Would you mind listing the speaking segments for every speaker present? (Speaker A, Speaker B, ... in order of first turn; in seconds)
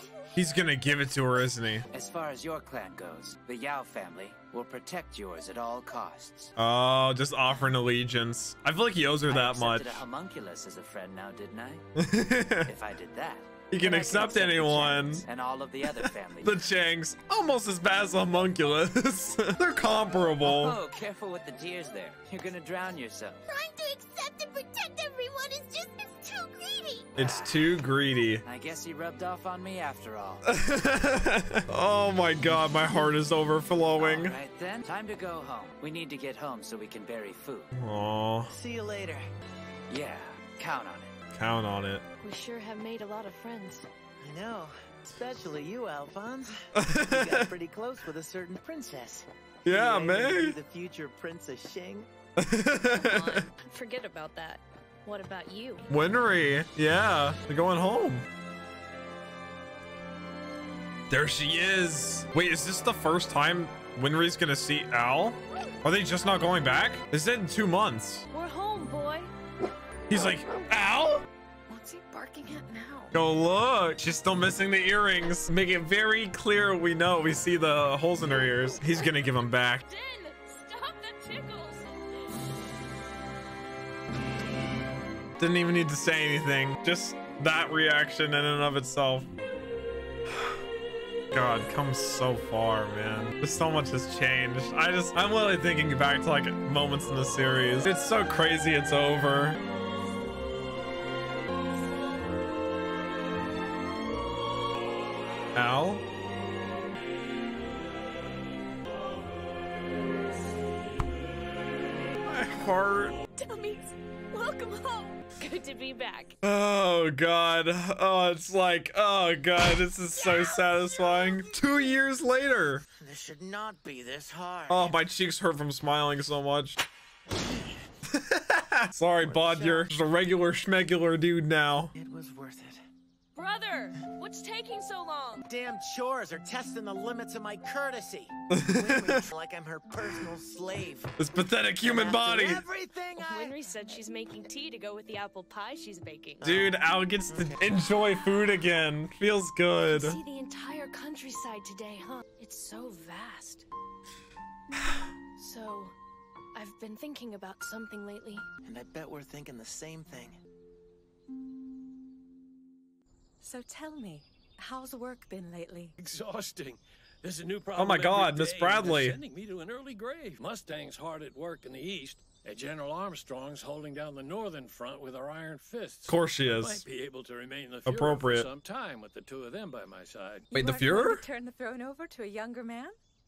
Speaker A: 0.3-1.8, 6.6-10.0, 12.0-12.7, 13.7-15.2, 15.9-20.8, 27.1-28.4, 30.4-34.3, 37.7-38.5, 41.3-42.0, 46.8-47.5, 49.6-50.6, 52.4-53.5, 55.9-58.2, 61.1-68.2, 70.1-71.2, 73.1-79.8, 85.4-89.3, 91.3-99.6, 105.5-106.0, 112.2-113.2, 116.4-122.8, 124.7-126.8, 128.1-131.9, 138.5-139.2, 141.2-142.6, 146.4-150.2, 167.8-169.2, 176.1-176.8, 177.8-178.5, 180.5-181.2
Speaker B: 1.9-6.5, 9.3-11.8, 12.6-16.6, 20.4-23.5, 27.1-27.7, 28.4-30.4, 34.0-37.7, 39.9-41.1
Speaker C: 23.5-27.1
Speaker D: 38.5-39.3, 44.2-52.1, 123.0-125.0, 129.2-130.0, 131.9-132.8, 135.5-141.1, 141.8-143.7, 146.4-146.7, 147.3-147.8, 158.6-160.4
Speaker E: 42.2-43.9, 52.8-55.9, 68.3-69.3, 79.9-82.2, 113.6-113.9, 115.3-116.3, 133.3-135.4, 143.2-146.6, 149.8-153.7, 155.3-156.0, 156.5-158.4
Speaker F: 163.4-165.9, 180.5-182.9
Speaker G: 166.0-180.5